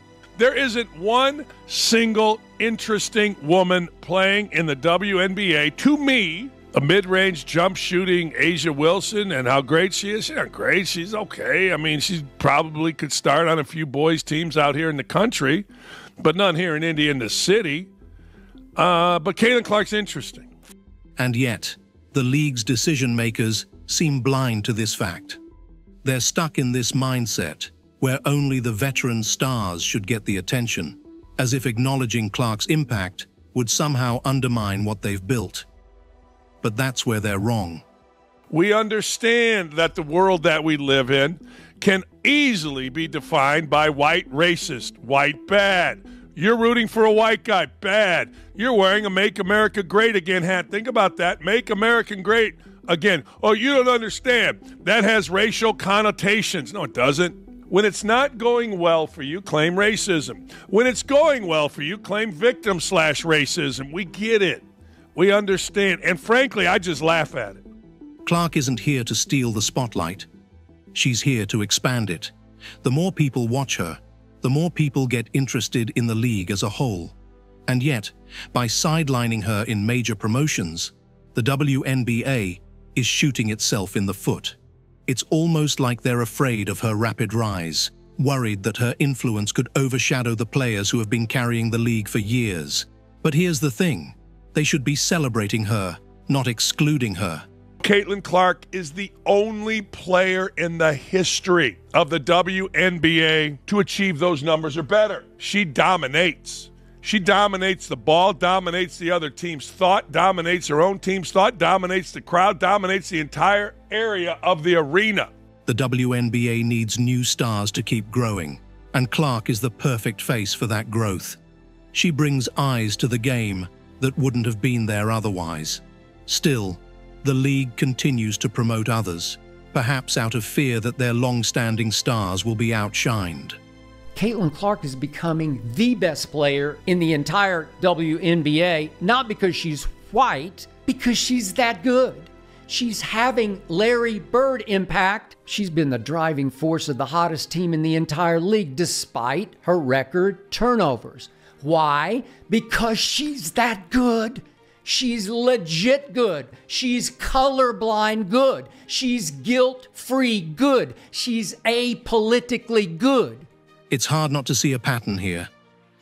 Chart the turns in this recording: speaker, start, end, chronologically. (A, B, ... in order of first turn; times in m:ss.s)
0:00.4-0:15.6 A
0:16.2-0:17.9 A
0:18.8-0:20.5 A
0:21.2-0:25.4 B
0:26.0-0:35.7 B
0:36.6-0:37.8 B
0:38.5-1:04.6 A
1:05.1-1:07.6 A
1:08.2-1:10.3 B
1:10.9-1:17.1 B
1:17.7-1:37.4 B
1:37.8-1:55.3 A
1:55.6-2:01.4 B
2:01.9-2:13.6 B
2:14.1-2:43.5 C
2:43.9-2:45.5 B